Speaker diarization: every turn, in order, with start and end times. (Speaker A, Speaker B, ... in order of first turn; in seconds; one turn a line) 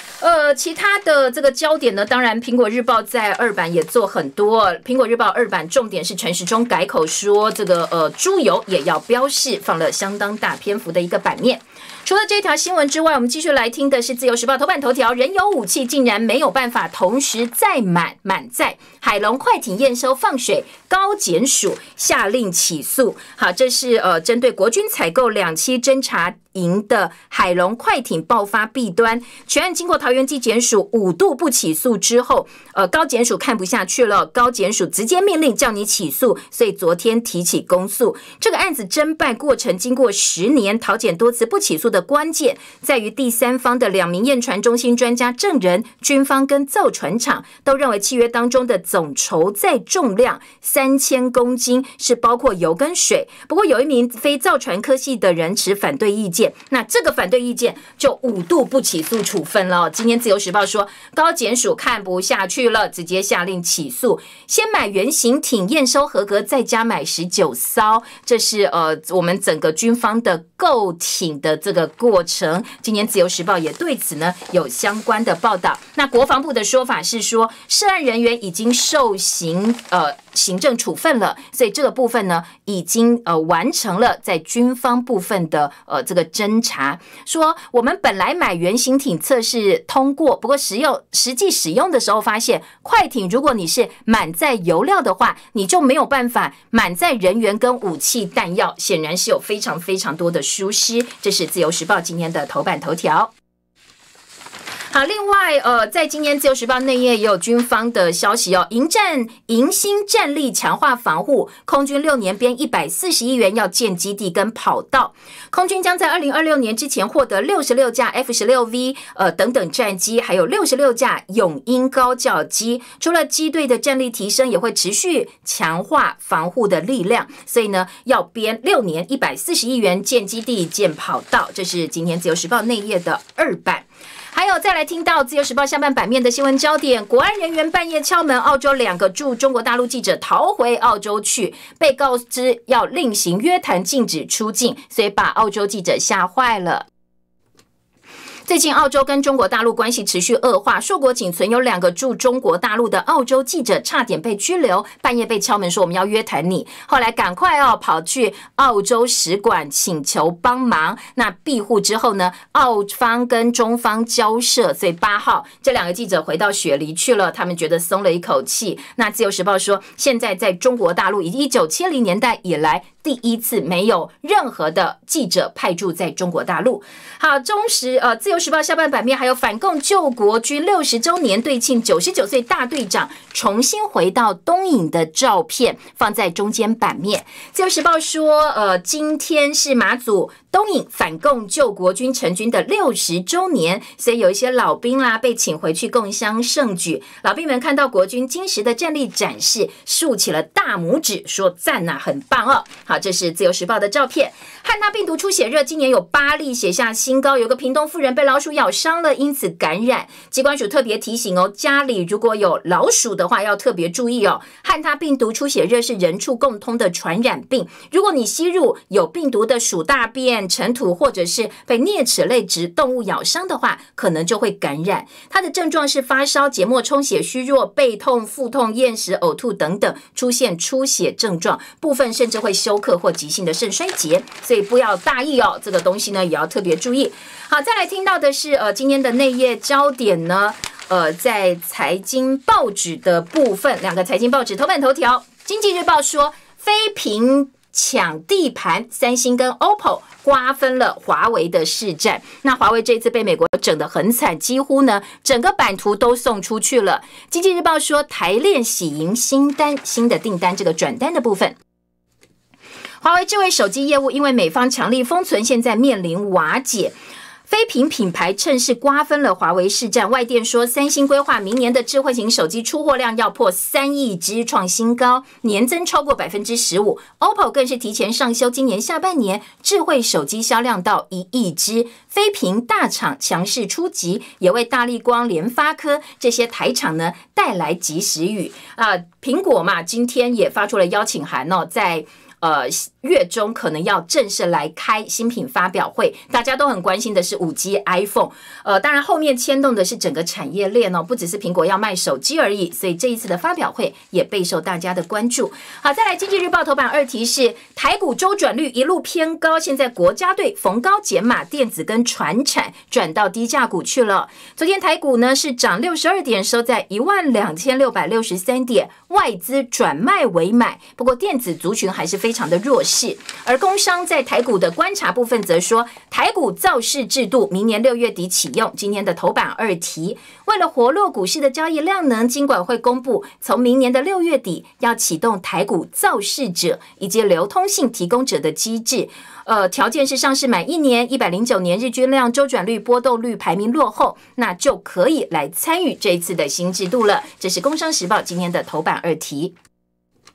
Speaker A: 0.2-103.3
Speaker A: 104.9-146.8
Speaker A: 148.5-261.5
Speaker A: 263.0-266.9
Speaker A: 267.5-349.5